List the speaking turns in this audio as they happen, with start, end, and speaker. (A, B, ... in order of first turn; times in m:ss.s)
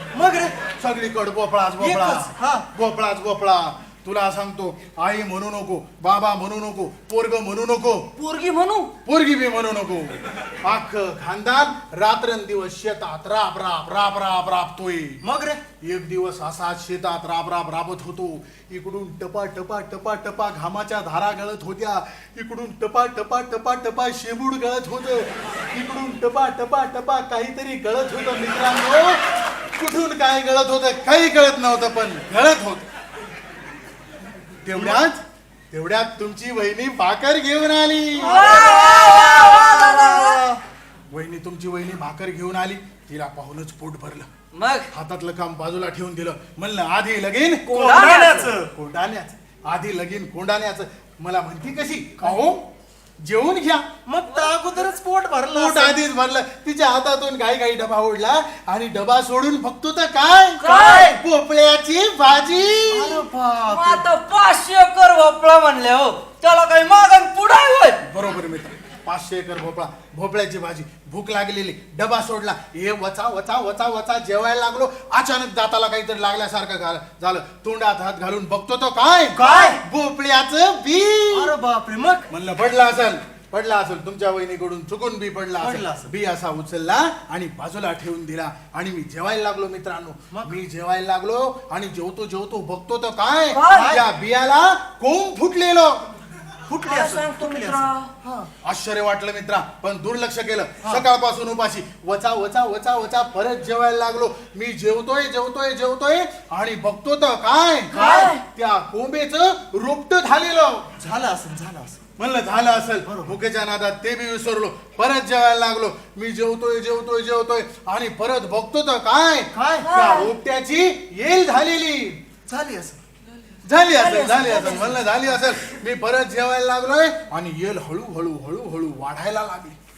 0:00.1-0:00.5 A
0:00.8-0:08.1 B
0:01.8-0:02.6 A
0:08.2-0:08.9 C
0:09.0-0:15.2 B
0:15.2-0:15.6 A
0:15.8-0:29.2 B
0:29.7-0:32.8 B
0:34.6-0:35.2 B
0:34.7-0:35.0 A
0:35.7-0:38.4 B
0:38.2-0:40.6 A
0:38.2-0:40.4 C
0:41.1-0:44.3 B
0:44.5-0:44.9 C
0:44.9-0:52.7 B
0:47.7-0:48.4 C
0:47.7-0:48.7 A
0:53.2-0:53.8 B
0:54.1-0:56.0 A
0:55.5-1:03.2 B
1:00.6-1:01.1 C
1:00.6-1:01.2 A
1:02.9-1:04.0 A
1:03.7-1:08.0 C
1:08.0-1:21.5 B
1:19.3-1:19.8 A
1:21.3-1:22.3 A
1:22.3-1:36.0 B
1:25.6-1:26.1 A
1:30.3-1:30.6 A
1:33.5-1:33.9 C
1:33.7-1:34.0 A
1:36.7-1:38.5 A
1:36.8-1:38.1 C
1:38.6-1:50.9 B
1:47.9-1:48.4 C
1:47.9-1:48.3 A
1:51.0-1:52.0 A
1:52.2-2:02.2 B
1:53.0-1:53.4 A
1:59.5-1:59.9 A
1:59.8-2:00.3 C
2:02.5-2:03.0 A
2:03.6-2:09.8 B
2:04.0-2:04.9 C